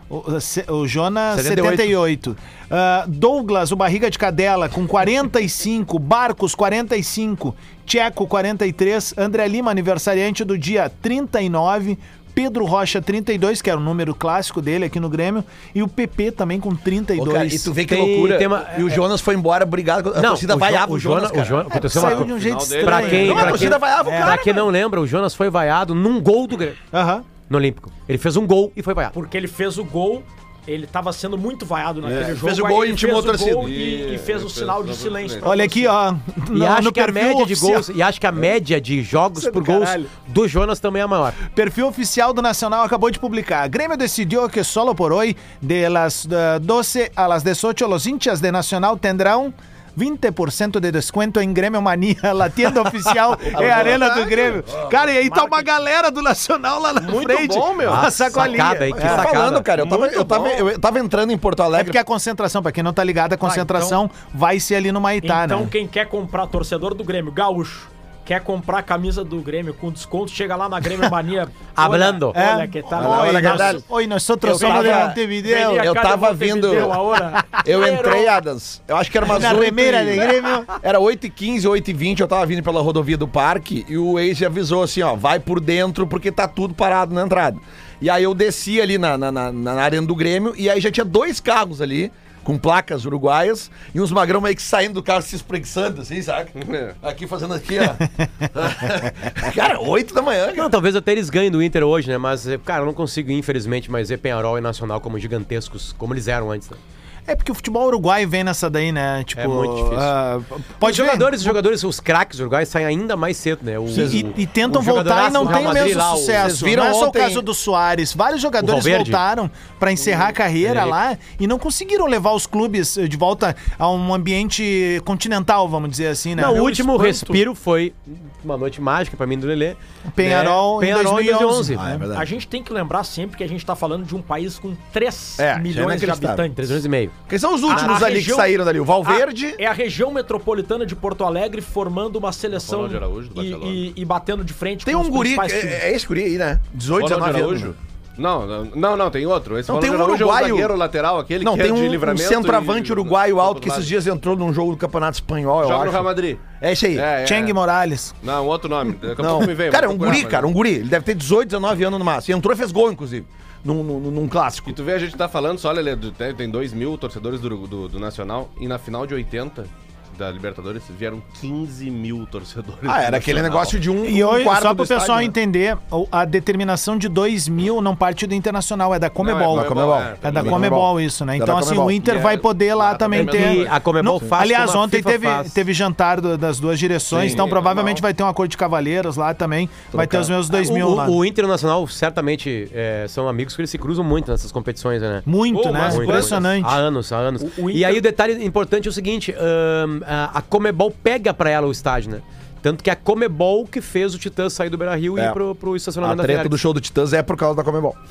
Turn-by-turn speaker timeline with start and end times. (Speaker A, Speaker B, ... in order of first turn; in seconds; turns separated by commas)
Speaker A: 0.1-17.8, Speaker B: 1.3-1.9, Speaker C: 17.2-22.2, Speaker B: 17.8-19.0, Speaker B: 20.2-26.8, Speaker A: 21.7-24.4, Speaker D: 22.0-23.7, Speaker C: 23.2-24.7, Speaker A: 26.9-27.3, Speaker B: 27.5-29.1, Speaker E: 29.1-35.9, Speaker C: 32.0-33.7, Speaker D: 33.6-35.5, Speaker A: 35.4-37.9, Speaker B: 36.5-41.4, Speaker A: 39.4-40.1, Speaker A: 41.5-59.3, Speaker D: 53.4-54.6, Speaker C: 53.6-54.0, Speaker E: 55.2-55.7, Speaker D: 57.0-58.1, Speaker B: 57.9-59.7, Speaker C: 58.9-62.0, Speaker D: 59.7-60.7, Speaker A: 61.7-65.7, Speaker E: 63.4-64.0, Speaker E: 65.2-73.8, Speaker B: 71.8-72.4, Speaker A: 72.3-75.9, Speaker C: 72.9-73.9, Speaker C: 74.4-77.0, Speaker E: 74.5-78.4, Speaker A: 77.4-77.6, Speaker C: 77.6-100.7, Speaker A: 79.2-80.7, Speaker D: 96.6-97.0, Speaker B: 100.5-106.8, Speaker A: 107.3-111.6, Speaker B: 109.4-110.1, Speaker B: 110.8-116.5, Speaker C: 113.9-114.3, Speaker A: 113.9-126.6, Speaker C: 115.4-117.5, Speaker B: 118.6-119.2, Speaker B: 120.6-121.0, Speaker B: 126.4-131.8, Speaker E: 126.5-127.4, Speaker A: 130.1-132.1, Speaker C: 131.8-132.3, Speaker E: 132.1-136.8, Speaker C: 135.4-136.5, Speaker B: 136.6-137.1, Speaker C: 137.3-139.6, Speaker E: 137.7-145.8, Speaker B: 137.7-138.1, Speaker D: 142.5-143.8, Speaker C: 144.8-147.8, Speaker D: 146.9-153.9, Speaker C: 149.7-150.7, Speaker C: 151.4-157.1, Speaker D: 155.6-157.6, Speaker A: 157.2-158.1, Speaker D: 158.2-160.5, Speaker C: 159.2-164.8, Speaker D: 164.7-173.8, Speaker C: 172.9-175.3, Speaker A: 174.0-191.2, Speaker D: 179.2-180.7, Speaker C: 179.5-182.0, Speaker D: 182.0-183.8, Speaker B: 183.1-185.6, Speaker C: 187.1-187.4, Speaker D: 187.1-188.0, Speaker C: 189.9-190.3, Speaker B: 190.5-206.6, Speaker A: 195.3-196.8, Speaker D: 195.5-196.5, Speaker E: 197.4-198.1, Speaker C: 206.0-208.0